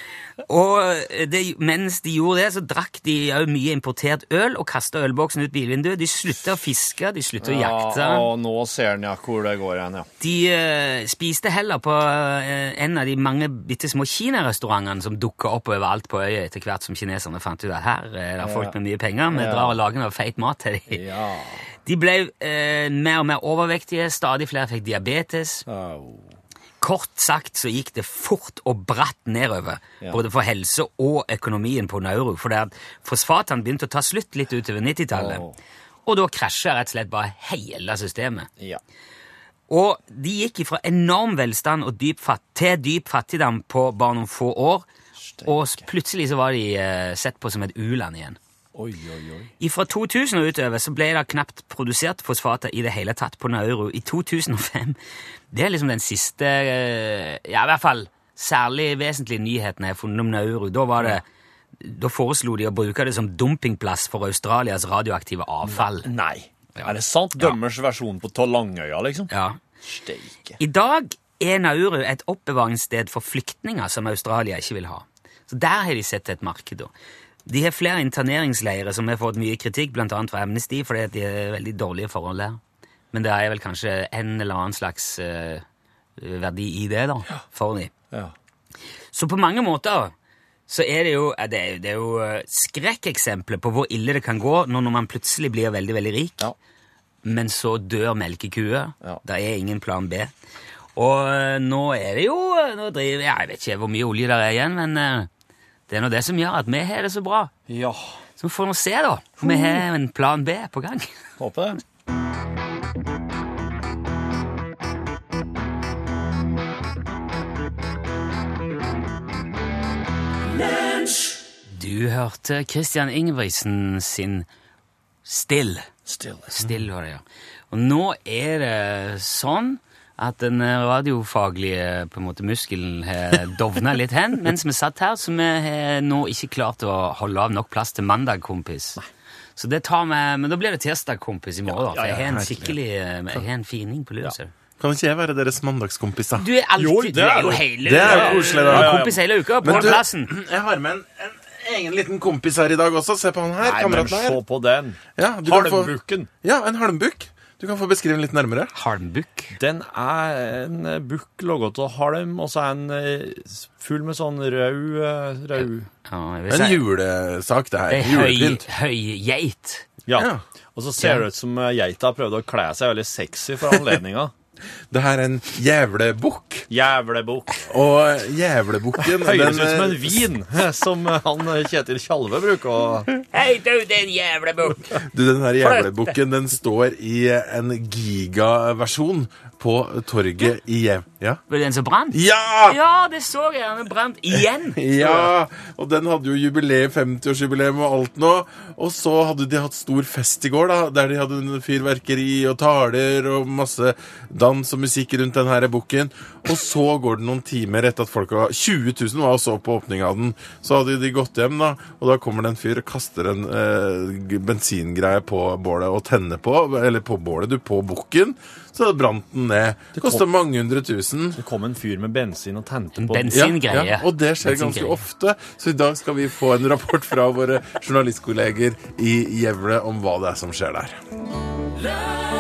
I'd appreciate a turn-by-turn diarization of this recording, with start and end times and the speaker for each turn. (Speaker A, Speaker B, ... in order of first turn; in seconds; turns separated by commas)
Speaker A: 0.5-8.3, Speaker B: 7.4-10.1, Speaker A: 10.2-21.0, Speaker B: 18.4-18.8, Speaker B: 19.3-19.8, Speaker B: 20.9-21.6, Speaker A: 21.9-25.7, Speaker B: 25.7-26.4, Speaker A: 26.8-35.4, Speaker B: 35.1-35.5, Speaker A: 36.1-38.5, Speaker A: 39.7-44.9, Speaker B: 45.2-45.9, Speaker A: 45.5-48.4, Speaker B: 48.7-49.5, Speaker A: 49.6-55.0, Speaker A: 55.5-61.2, Speaker A: 61.8-66.1, Speaker B: 65.6-69.3, Speaker A: 66.8-67.6, Speaker A: 69.3-69.6, Speaker B: 69.8-70.6, Speaker A: 70.6-76.9, Speaker A: 77.5-82.6, Speaker A: 83.1-85.6, Speaker A: 86.2-87.9, Speaker A: 89.1-90.1, Speaker A: 90.7-96.5, Speaker A: 97.2-100.3, Speaker A: 101.0-105.3, Speaker A: 105.9-107.5, Speaker B: 107.7-108.2, Speaker A: 108.4-111.1, Speaker B: 109.5-109.8, Speaker B: 111.4-111.8, Speaker A: 121.7-124.5, Speaker A: 125.2-125.9, Speaker B: 126.1-126.7, Speaker A: 126.5-139.0, Speaker A: 139.6-144.5, Speaker B: 141.7-142.4, Speaker C: 142.2-142.8, Speaker C: 144.8-146.5, Speaker A: 146.4-150.3, Speaker B: 146.8-149.9, Speaker C: 147.8-154.4, Speaker B: 153.6-156.3, Speaker C: 155.2-158.7, Speaker A: 158.7-159.6, Speaker B: 159.5-165.9, Speaker A: 165.6-166.8, Speaker C: 166.5-168.7, Speaker A: 167.9-169.9, Speaker B: 170.1-174.3, Speaker C: 170.1-170.4, Speaker A: 171.0-171.2, Speaker C: 174.9-176.7, Speaker B: 176.7-177.5, Speaker C: 177.7-180.3, Speaker B: 179.2-183.1, Speaker A: 183.3-185.0, Speaker C: 185.0-191.4, Speaker A: 185.6-186.2, Speaker A: 191.5-195.3, Speaker C: 192.1-192.8, Speaker C: 194.8-221.4, Speaker B: 219.9-220.2, Speaker B: 221.4-223.3, Speaker A: 223.0-225.0, Speaker C: 223.3-231.0